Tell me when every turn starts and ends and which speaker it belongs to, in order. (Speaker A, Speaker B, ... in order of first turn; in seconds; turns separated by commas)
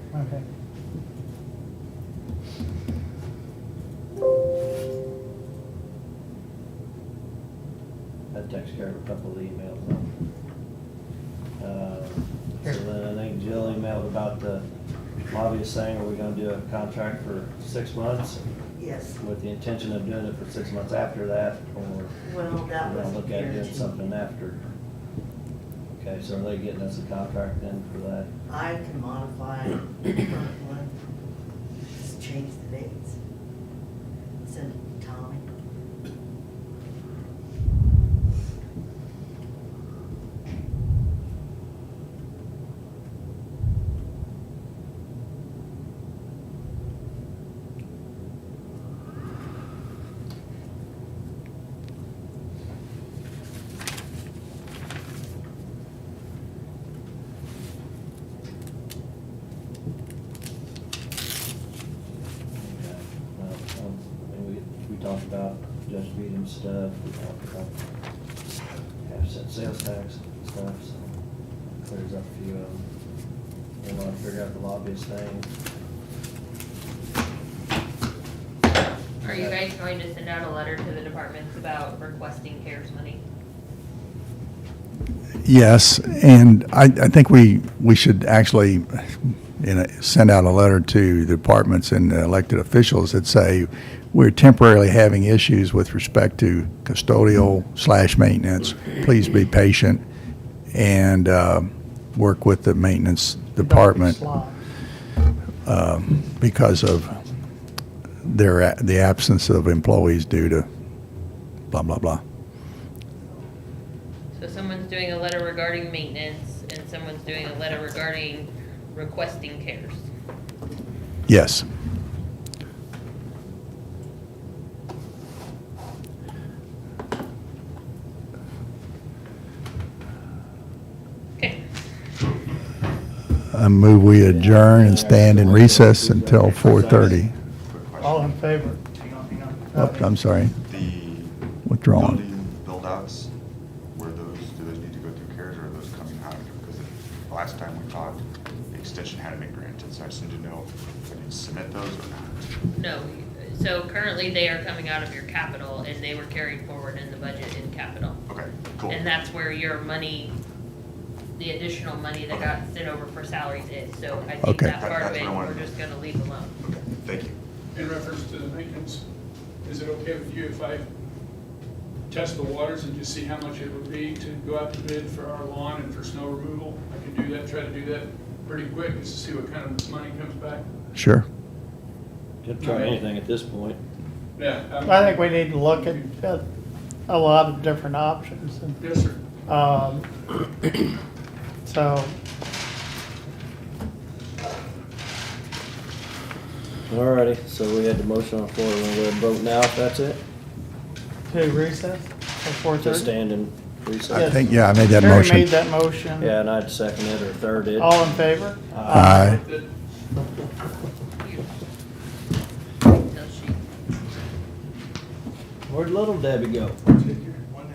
Speaker A: 0.1-0.4, Speaker B: 8.3-10.1, Speaker B: 11.6-14.7, Speaker B: 15.3-18.5, Speaker C: 18.7-19.2, Speaker B: 19.2-22.2, Speaker C: 22.2-23.9, Speaker B: 22.7-24.6, Speaker B: 25.9-28.3, Speaker C: 28.5-30.9, Speaker C: 32.0-33.2, Speaker C: 34.4-35.5, Speaker B: 62.5-67.8, Speaker B: 69.0-71.2, Speaker B: 71.8-72.9, Speaker B: 73.8-75.5, Speaker D: 79.2-83.2, Speaker B: 79.2-79.6, Speaker E: 85.4-100.0, Speaker E: 100.7-104.2, Speaker A: 103.6-104.6, Speaker E: 105.7-107.2, Speaker E: 108.2-110.7, Speaker E: 111.7-112.2, Speaker D: 114.4-120.1, Speaker E: 121.3-121.7, Speaker E: 133.5-137.3, Speaker B: 134.1-137.2, Speaker F: 137.7-138.4, Speaker A: 138.0-140.1, Speaker E: 139.8-140.6, Speaker F: 140.7-141.4, Speaker E: 141.7-142.2, Speaker F: 141.9-143.3, Speaker F: 143.9-152.5, Speaker D: 152.8-158.2, Speaker F: 158.3-159.0, Speaker D: 158.9-160.3, Speaker D: 161.4-166.5, Speaker F: 162.3-162.6, Speaker E: 164.4-164.8, Speaker F: 164.8-165.8, Speaker F: 166.6-167.4, Speaker G: 167.7-169.0, Speaker G: 169.6-170.9, Speaker G: 172.1-180.6, Speaker E: 180.9-181.3, Speaker B: 182.4-183.8, Speaker G: 182.6-183.0, Speaker G: 184.4-186.1, Speaker A: 184.8-186.5, Speaker A: 187.1-188.8, Speaker G: 188.8-189.2, Speaker A: 189.5-190.1, Speaker A: 191.7-192.1, Speaker B: 196.9-200.2, Speaker A: 201.3-203.1, Speaker B: 202.8-204.7, Speaker E: 204.1-205.5, Speaker A: 204.1-206.3, Speaker B: 206.2-207.9, Speaker A: 207.8-209.4, Speaker B: 208.7-209.1, Speaker E: 208.9-209.4, Speaker G: 208.9-209.7, Speaker D: 211.2-211.5, Speaker D: 212.9-213.6, Speaker B: 215.7-216.8